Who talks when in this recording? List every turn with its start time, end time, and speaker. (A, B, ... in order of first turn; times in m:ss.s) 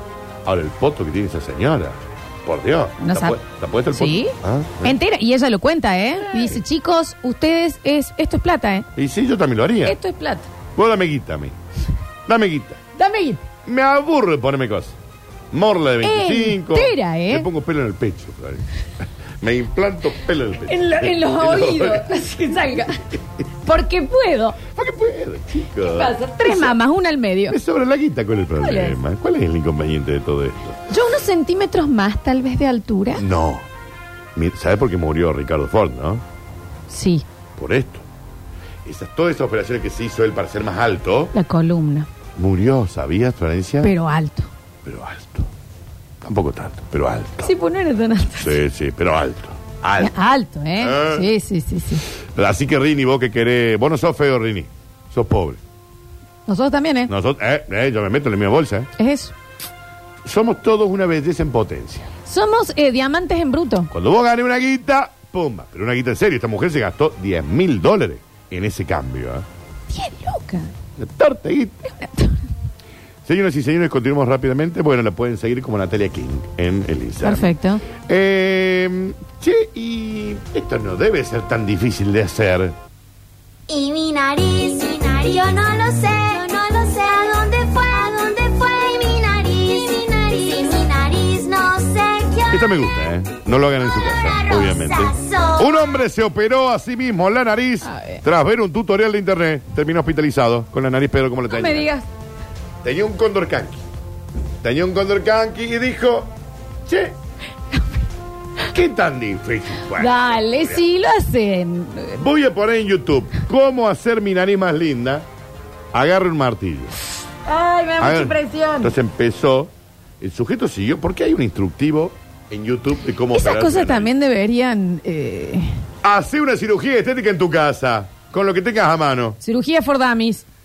0:00.4-0:05.0 A
0:03.0-0:03.4 B
0:03.9-0:08.9 B
0:06.3-0:06.6 A
0:09.0-0:10.0 A
0:09.8-0:10.5 B
0:10.8-0:11.6 A
0:12.3-0:12.8 A
0:13.0-0:13.4 B
0:13.6-0:15.0 A
0:15.5-0:22.1 A
0:16.0-0:17.5 B
0:20.7-0:23.1 B
0:23.6-0:24.6 B
0:24.7-0:26.8 A
0:25.7-0:27.6 B
0:27.5-0:30.8 A
0:28.6-0:29.0 B
0:30.9-0:33.2 B
0:33.2-0:33.7 A
0:34.4-0:36.2 A
0:36.9-0:37.2 B
0:37.6-0:38.0 A
0:38.8-0:41.3 A
0:41.3-0:42.1 B
0:42.4-0:43.9 A
0:43.8-0:44.5 B
0:44.8-0:45.5 A
0:46.2-0:47.5 A
0:47.4-0:48.6 B
0:48.4-0:50.1 A
0:50.0-0:52.0 B
0:50.8-0:51.3 A
0:52.4-0:55.6 A
0:56.5-0:57.1 B
0:57.1-0:58.9 A
0:59.0-0:59.3 B
1:00.2-1:02.1 A
1:02.3-1:03.9 B
1:03.9-1:09.4 A
1:09.9-1:10.7 B
1:11.0-1:11.8 A
1:11.9-1:12.4 B
1:13.2-1:22.8 A
1:17.2-1:17.8 B
1:23.7-1:33.0 C
1:32.5-1:41.9 A
1:33.8-1:36.0 C
1:37.8-1:38.2 B
1:41.5-1:42.0 B
1:42.8-1:43.8 A
1:44.6-1:46.3 A
1:46.8-1:47.2 A
1:48.7-1:50.8 A
1:50.0-1:52.2 B
1:52.2-1:55.3 A
1:55.9-1:57.0 A
1:57.5-1:58.9 B
1:58.0-2:04.1 A
2:03.3-2:05.8 B
2:06.0-2:09.4 A
2:09.4-2:10.4 B